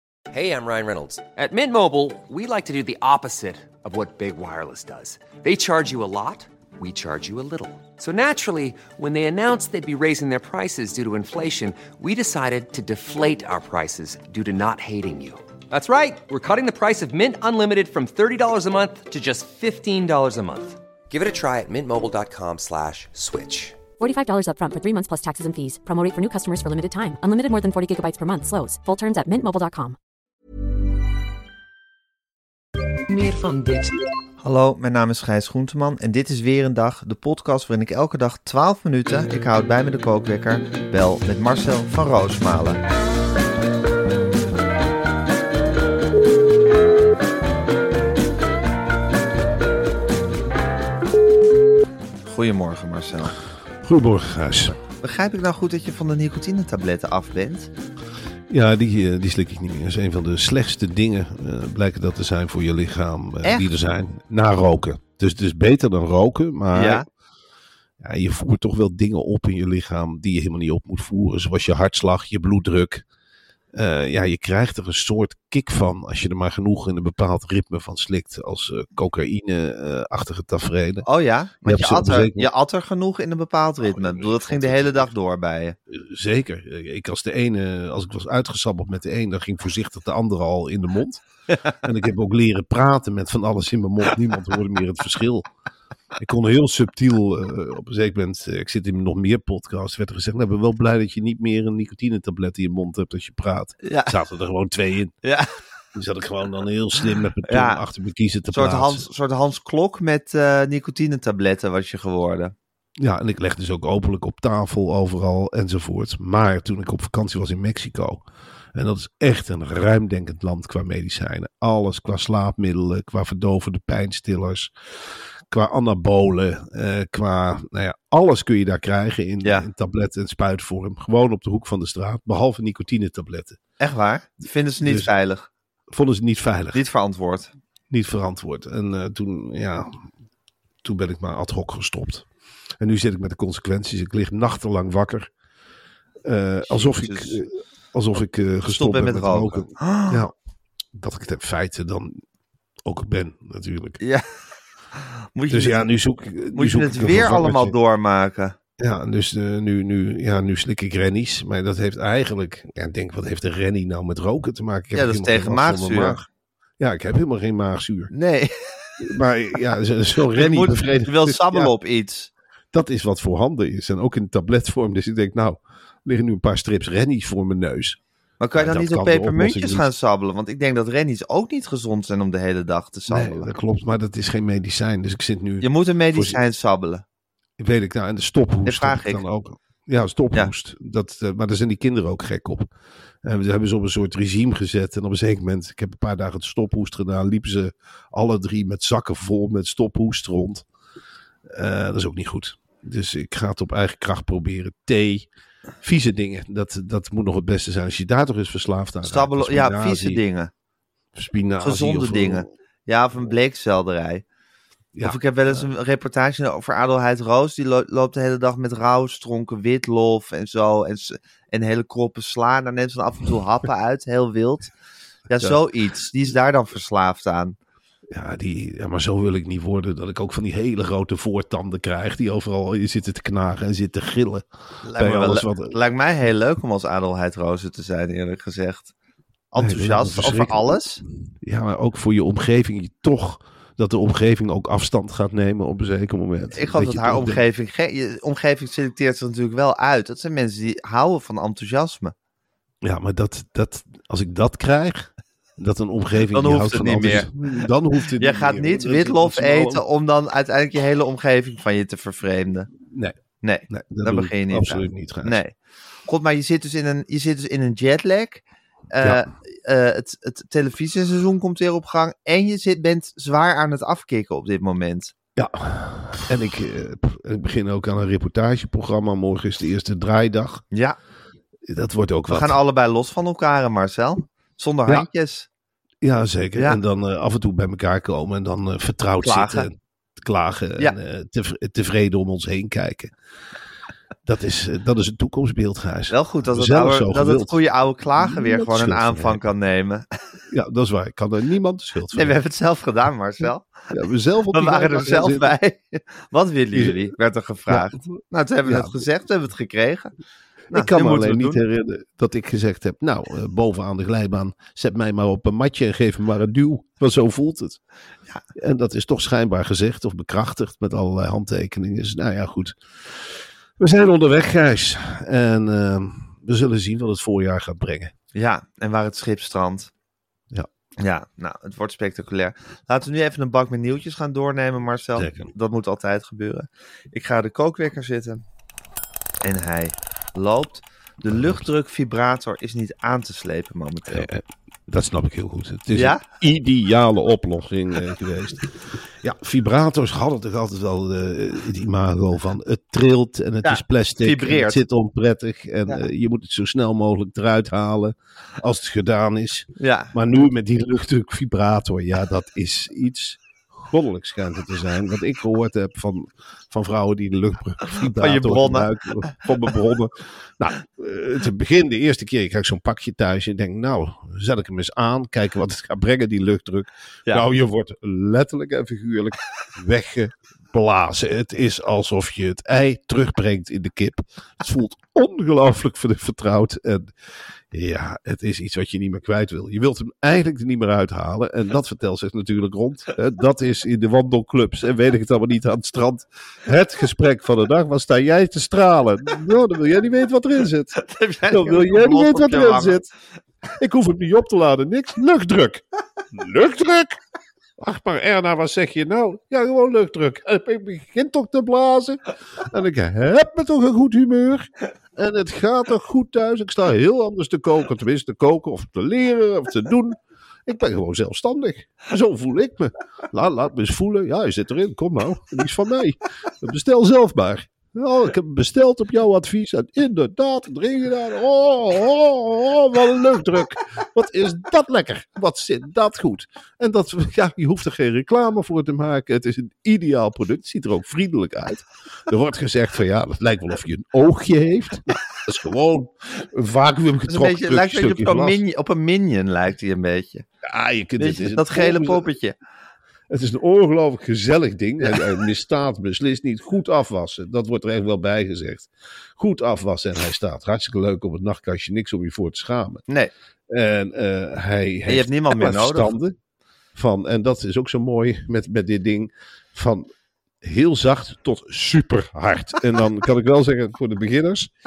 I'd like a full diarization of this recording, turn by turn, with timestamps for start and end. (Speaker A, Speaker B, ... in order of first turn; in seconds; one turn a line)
Speaker A: 0.3-23.8
Speaker B: 24.0-29.9
Speaker A: 33.1-34.0
Speaker C: 34.4-42.8
Speaker C: 52.2-53.4
Speaker D: 53.8-54.8
Speaker C: 54.8-57.7
Speaker D: 58.5-67.0
Speaker C: 63.4-63.7
Speaker C: 66.7-67.0
Speaker D: 68.0-73.0
Speaker D: 73.7-81.0
Speaker C: 81.0-85.8
Speaker D: 81.6-82.5
Speaker D: 83.8-85.1
Speaker D: 85.9-91.2
Speaker D: 91.7-95.5
Speaker D: 96.2-105.1
Speaker C: 103.8-104.1
Speaker D: 105.9-109.0
Speaker C: 107.5-107.8
Speaker C: 108.5-112.5
Speaker D: 113.0-133.6
Speaker C: 133.8-135.5
Speaker D: 134.8-135.1
Speaker D: 135.9-136.8
Speaker C: 136.7-137.5
Speaker D: 137.9-140.0
Speaker D: 140.8-142.3
Speaker D: 142.8-145.3
Speaker D: 146.2-150.3
Speaker C: 146.7-147.4
Speaker C: 148.7-150.2
Speaker D: 150.9-152.2
Speaker D: 152.8-154.0
Speaker C: 154.0-154.2
Speaker C: 155.3-155.8
Speaker D: 155.5-157.7
Speaker C: 156.5-158.6
Speaker D: 158.8-166.2
Speaker C: 164.9-166.2
Speaker D: 166.8-168.1
Speaker C: 168.1-169.1
Speaker D: 169.0-171.7
Speaker C: 170.3-172.3
Speaker D: 172.7-178.0
Speaker C: 178.4-183.5
Speaker D: 178.6-179.9
Speaker D: 183.1-186.4
Speaker C: 185.6-187.0
Speaker D: 187.6-192.7
Speaker C: 188.6-189.2
Speaker D: 193.2-200.6
Speaker D: 201.5-205.3
Speaker D: 205.8-210.2
Speaker C: 209.0-210.5
Speaker D: 211.1-212.5
Speaker C: 211.6-214.2
Speaker D: 214.9-215.7
Speaker C: 215.0-224.7
Speaker C: 225.3-227.6
Speaker D: 228.1-235.7
Speaker C: 234.8-238.9
Speaker C: 239.5-241.0
Speaker D: 239.6-247.4
Speaker C: 246.5-252.1
Speaker D: 252.8-259.8
Speaker C: 256.3-257.3
Speaker C: 258.2-262.7
Speaker D: 262.9-263.1
Speaker C: 263.4-275.1
Speaker D: 263.7-265.4
Speaker D: 275.4-280.6
Speaker C: 280.7-281.0
Speaker D: 281.7-282.6
Speaker C: 282.3-285.5
Speaker D: 286.0-293.1
Speaker C: 289.2-289.7
Speaker D: 294.2-297.6
Speaker C: 296.1-300.1
Speaker D: 298.1-299.4
Speaker D: 300.5-302.4
Speaker C: 302.1-303.9
Speaker D: 303.9-305.5
Speaker C: 304.5-310.1
Speaker D: 306.7-307.1
Speaker D: 307.7-309.0
Speaker D: 310.7-317.8
Speaker C: 310.7-311.6
Speaker D: 318.5-328.1
Speaker C: 328.3-329.9
Speaker C: 331.0-338.4
Speaker D: 335.1-335.5
Speaker C: 339.4-344.3
Speaker D: 344.1-387.1
Speaker C: 345.9-346.2
Speaker C: 353.6-354.8
Speaker C: 359.8-360.1
Speaker C: 368.1-369.3
Speaker D: 387.7-403.1
Speaker C: 401.0-403.0
Speaker D: 403.7-407.2
Speaker D: 407.8-448.6
Speaker C: 447.3-450.4
Speaker D: 450.6-452.3
Speaker C: 451.2-452.6
Speaker D: 453.3-463.0
Speaker D: 463.7-466.4
Speaker C: 465.1-466.1
Speaker D: 466.9-470.1
Speaker D: 470.6-474.7